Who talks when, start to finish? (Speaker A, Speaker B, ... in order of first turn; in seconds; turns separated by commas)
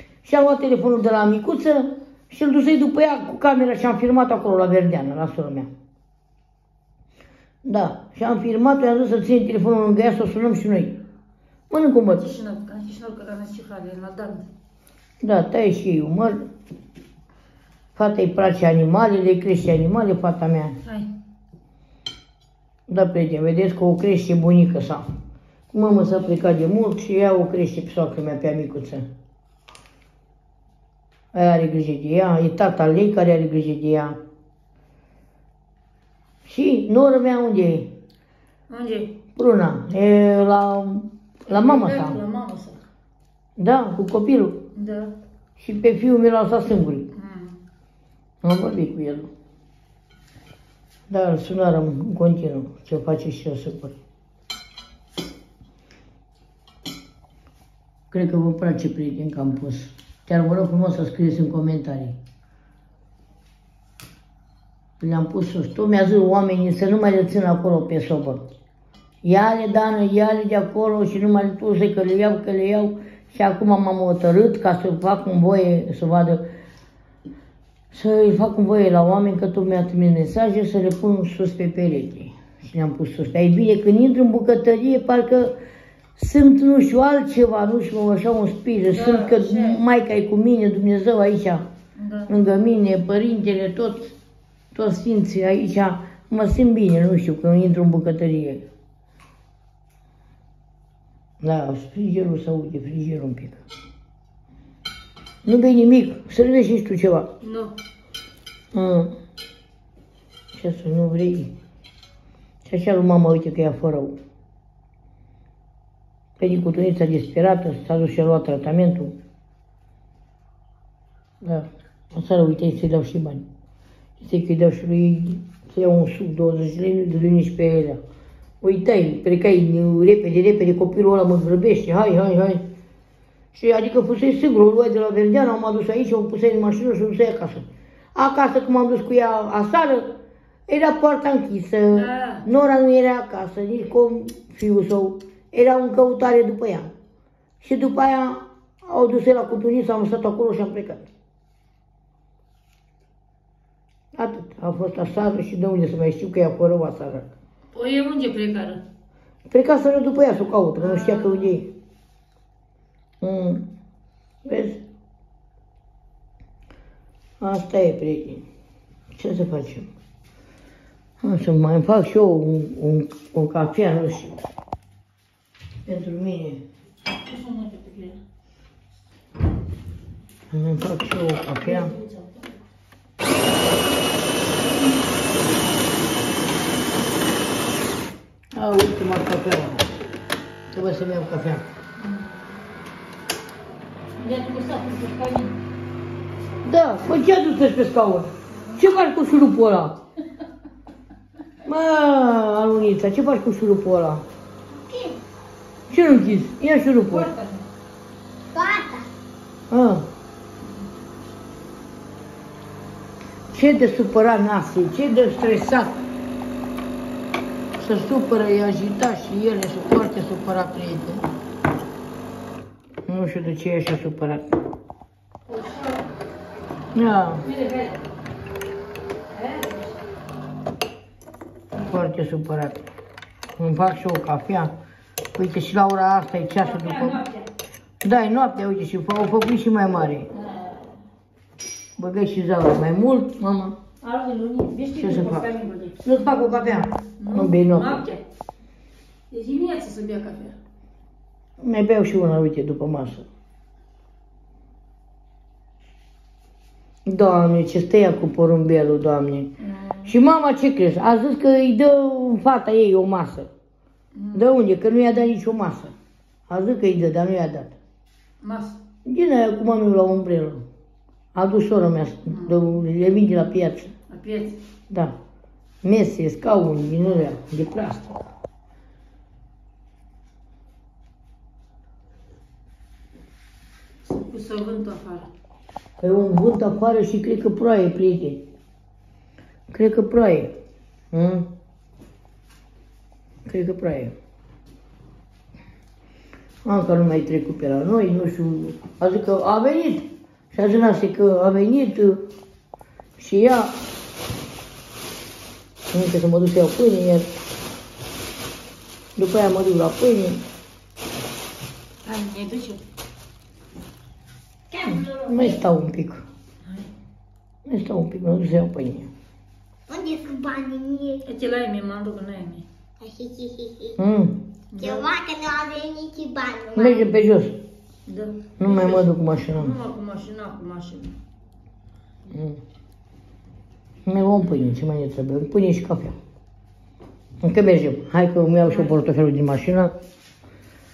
Speaker A: 0.2-5.7, Speaker A: 7.7-11.0, Speaker A: 11.7-12.3, Speaker B: 12.1-14.5, Speaker A: 15.2-16.5, Speaker A: 17.9-20.8, Speaker B: 20.8-21.1, Speaker A: 22.9-25.0, Speaker A: 25.7-29.1, Speaker A: 31.3-34.2, Speaker A: 36.5-37.9, Speaker B: 38.7-39.2, Speaker A: 39.4-42.2, Speaker B: 41.5-42.8, Speaker A: 43.6-44.6, Speaker B: 44.8-45.1, Speaker A: 45.6-47.1, Speaker B: 47.1-47.6, Speaker A: 48.4-49.3, Speaker A: 51.1-54.0, Speaker A: 58.1-62.2, Speaker A: 65.0-68.4, Speaker A: 69.2-76.5, Speaker A: 77.9-85.5, Speaker A: 86.2-91.7, Speaker B: 88.9-89.8, Speaker B: 92.0-92.3, Speaker A: 92.3-94.1, Speaker A: 94.7-98.6, Speaker A: 101.4-103.6, Speaker A: 105.5-107.3, Speaker B: 107.4-107.8, Speaker A: 108.7-109.1, Speaker A: 110.5-111.5, Speaker A: 112.7-114.2, Speaker A: 116.4-119.2, Speaker A: 121.4-123.5, Speaker A: 124.2-128.0, Speaker A: 128.6-132.6, Speaker A: 133.5-140.2, Speaker A: 140.7-146.9, Speaker B: 142.0-142.4, Speaker A: 147.6-151.1, Speaker A: 154.2-157.3, Speaker B: 157.7-158.8, Speaker A: 159.5-161.7, Speaker B: 160.8-161.6, Speaker A: 163.2-163.7, Speaker A: 164.4-164.8, Speaker A: 167.4-168.4, Speaker A: 169.2-169.9, Speaker A: 171.2-174.4, Speaker A: 175.8-176.6, Speaker B: 177.2-178.2, Speaker A: 180.5-181.9, Speaker B: 181.6-182.4, Speaker B: 184.6-185.0, Speaker A: 188.5-189.9, Speaker A: 190.7-191.6, Speaker B: 192.0-192.3, Speaker B: 194.2-195.6, Speaker A: 196.6-200.0, Speaker A: 201.7-204.2, Speaker C: 204.8-205.2, Speaker A: 205.9-207.3, Speaker B: 207.0-207.7, Speaker C: 208.5-209.1, Speaker A: 209.7-210.1, Speaker A: 213.5-215.9, Speaker A: 217.8-221.3, Speaker A: 223.1-224.4, Speaker B: 225.5-226.1, Speaker A: 226.9-227.5, Speaker B: 227.4-228.0, Speaker B: 229.3-230.0, Speaker A: 231.7-232.8, Speaker A: 233.6-234.7, Speaker A: 235.3-237.2, Speaker B: 236.6-237.5, Speaker A: 238.0-240.3, Speaker B: 240.3-241.0, Speaker A: 242.0-243.8, Speaker B: 244.0-246.1, Speaker A: 245.0-245.5, Speaker A: 246.0-248.0, Speaker B: 247.2-248.2, Speaker B: 249.3-250.6, Speaker A: 251.6-253.3, Speaker A: 257.1-259.5, Speaker B: 259.6-260.1, Speaker A: 260.0-263.5, Speaker B: 264.1-264.5, Speaker A: 264.3-265.9, Speaker A: 266.5-267.8, Speaker B: 268.4-268.8, Speaker A: 269.1-270.6, Speaker A: 271.3-273.9, Speaker B: 272.3-272.6, Speaker B: 274.1-274.6, Speaker A: 274.9-275.1, Speaker A: 275.8-278.2, Speaker B: 284.0-285.3, Speaker A: 286.0-288.4, Speaker A: 289.7-290.5, Speaker A: 291.1-291.5, Speaker A: 293.5-294.1, Speaker A: 296.6-302.3, Speaker A: 303.2-303.8, Speaker A: 305.9-307.3, Speaker A: 309.2-310.4, Speaker B: 312.0-312.8, Speaker C: 314.7-315.6, Speaker A: 315.1-316.2, Speaker A: 317.7-319.1, Speaker C: 319.9-321.2, Speaker B: 321.2-322.7, Speaker C: 323.0-324.0, Speaker A: 324.0-324.4, Speaker B: 324.7-325.1, Speaker C: 324.8-327.1, Speaker A: 326.8-327.6, Speaker B: 328.1-331.2, Speaker A: 328.6-329.7, Speaker A: 332.3-332.6, Speaker A: 334.1-336.2, Speaker A: 337.4-339.9